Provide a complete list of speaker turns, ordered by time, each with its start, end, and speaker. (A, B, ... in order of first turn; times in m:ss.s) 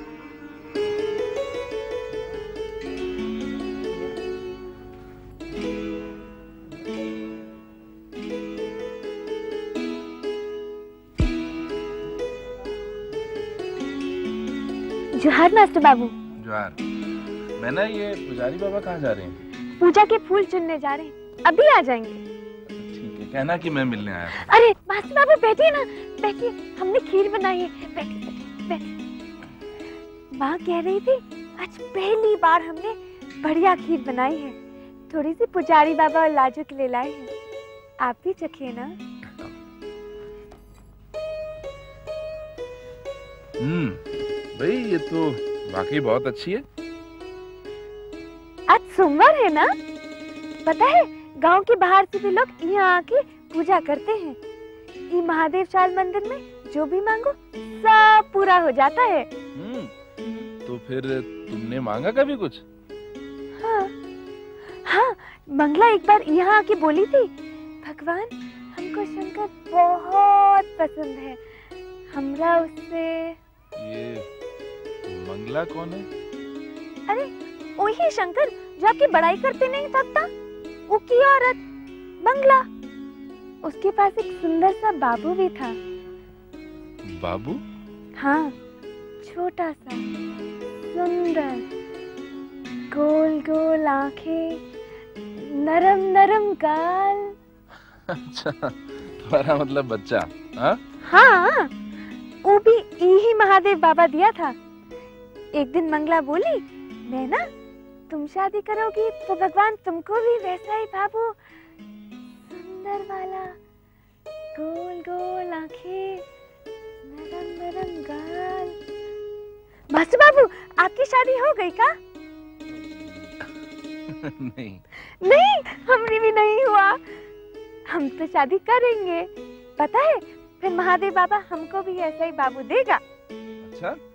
0:15.1-0:16.1 A
0:16.4-0:16.8 B
0:17.6-0:19.4 B
0:19.8-0:22.2 A
0:22.7-0:24.5 B
0:24.4-0:28.9 A
0:30.3-0:34.6 A
0:35.1-0:37.3 A
0:38.0-0:38.9 A
0:43.6-0:44.0 B
0:44.5-0:46.6 B
0:48.7-0:49.7 A
0:50.6-0:54.4 A
0:55.1-0:59.3 A
0:59.5-0:59.9 B
1:00.6-1:02.6 B
1:03.6-1:03.9 A
1:04.8-1:07.3 A
1:07.8-1:11.4 A
1:12.1-1:13.4 A
1:13.8-1:14.3 B
1:15.1-1:16.1 B
1:17.1-1:20.3 A
1:20.9-1:21.6 A
1:22.2-1:22.6 A
1:23.6-1:25.8 A
1:27.1-1:27.6 B
1:28.2-1:28.5 A
1:29.2-1:30.0 A
1:30.9-1:31.6 A
1:32.9-1:34.6 A
1:35.3-1:37.3 A
1:38.1-1:40.8 B
1:41.0-1:41.7 A
1:42.4-1:44.6 A
1:45.6-1:47.4 A
1:48.1-1:51.3 A
1:52.4-1:53.6 A
1:54.5-1:56.2 A
1:57.0-1:58.7 A
1:59.9-2:01.9 A
2:02.7-2:03.5 B
2:04.1-2:04.8 B
2:05.2-2:07.0 A
2:07.9-2:13.0 A
2:13.6-2:14.0 B